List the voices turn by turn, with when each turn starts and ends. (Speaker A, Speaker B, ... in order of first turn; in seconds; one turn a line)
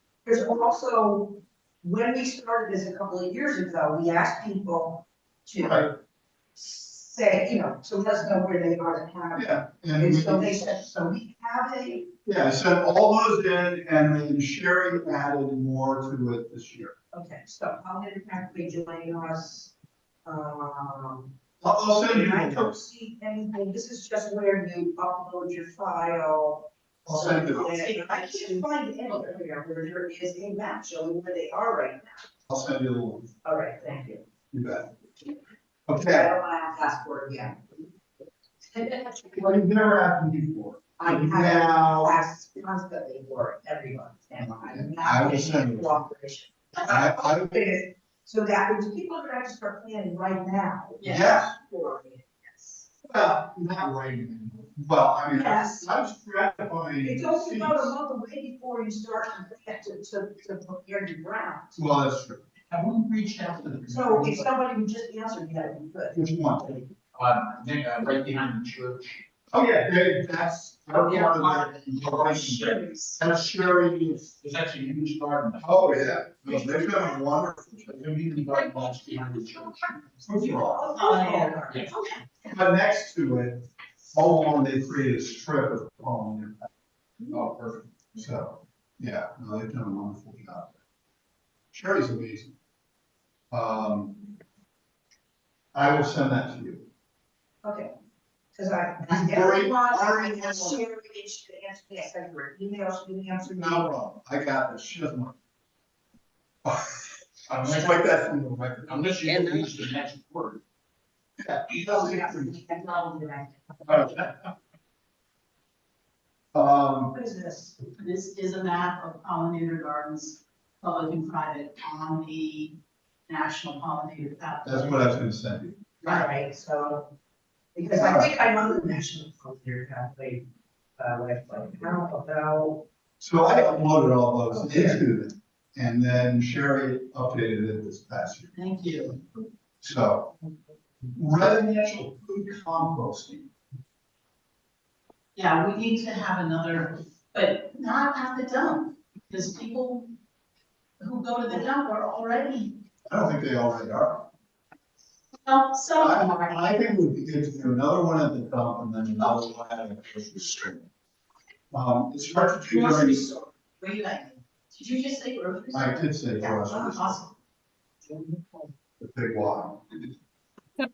Speaker A: 0.2-5.9
Speaker B: 5.6-5.9
Speaker A: 6.5-12.1
Speaker B: 9.3-10.6
Speaker B: 12.2-16.9
Speaker A: 17.1-21.3
Speaker B: 21.6-22.8
Speaker A: 21.9-32.2
Speaker B: 27.1-27.7
Speaker C: 27.1-28.6
Speaker B: 32.5-33.3
Speaker A: 33.4-34.2
Speaker B: 34.5-34.9
Speaker B: 35.9-36.3
Speaker A: 36.0-37.8
Speaker A: 38.7-39.4
Speaker B: 39.3-42.1
Speaker A: 41.0-52.4
Speaker B: 44.4-46.0
Speaker B: 46.9-47.6
Speaker C: 51.0-51.3
Speaker B: 51.0-51.5
Speaker B: 53.0-57.9
Speaker A: 55.3-55.9
Speaker A: 57.0-61.8
Speaker B: 61.8-62.4
Speaker D: 62.7-64.0
Speaker A: 63.9-66.7
Speaker B: 64.0-64.4
Speaker B: 66.1-66.7
Speaker D: 67.1-69.2
Speaker B: 69.5-74.3
Speaker D: 71.3-72.8
Speaker D: 74.2-75.7
Speaker B: 75.6-78.2
Speaker D: 76.4-76.8
Speaker D: 78.0-80.0
Speaker B: 80.2-80.9
Speaker A: 80.4-82.0
Speaker C: 81.0-82.2
Speaker B: 82.5-86.6
Speaker B: 87.3-90.7
Speaker B: 91.7-92.5
Speaker B: 93.5-94.3
Speaker B: 95.7-96.8
Speaker A: 97.6-97.9
Speaker A: 98.5-103.9
Speaker B: 99.1-100.8
Speaker B: 103.5-105.3
Speaker B: 106.6-109.7
Speaker D: 108.8-110.6
Speaker B: 111.4-112.6
Speaker A: 111.8-114.1
Speaker B: 113.8-114.5
Speaker B: 116.5-117.1
Speaker A: 117.1-117.8
Speaker C: 118.0-125.0
Speaker B: 124.6-125.8
Speaker A: 126.0-127.1
Speaker A: 127.7-130.4
Speaker B: 127.9-128.3
Speaker A: 131.0-132.9
Speaker B: 133.2-138.5
Speaker C: 138.5-139.2
Speaker B: 139.8-140.4
Speaker B: 141.1-143.5
Speaker C: 145.3-150.1
Speaker C: 151.0-152.8
Speaker B: 153.1-154.3
Speaker C: 155.4-156.6
Speaker B: 156.0-160.8
Speaker B: 161.7-163.3
Speaker C: 162.7-167.3
Speaker B: 165.7-167.2
Speaker C: 168.1-168.4
Speaker B: 169.0-170.1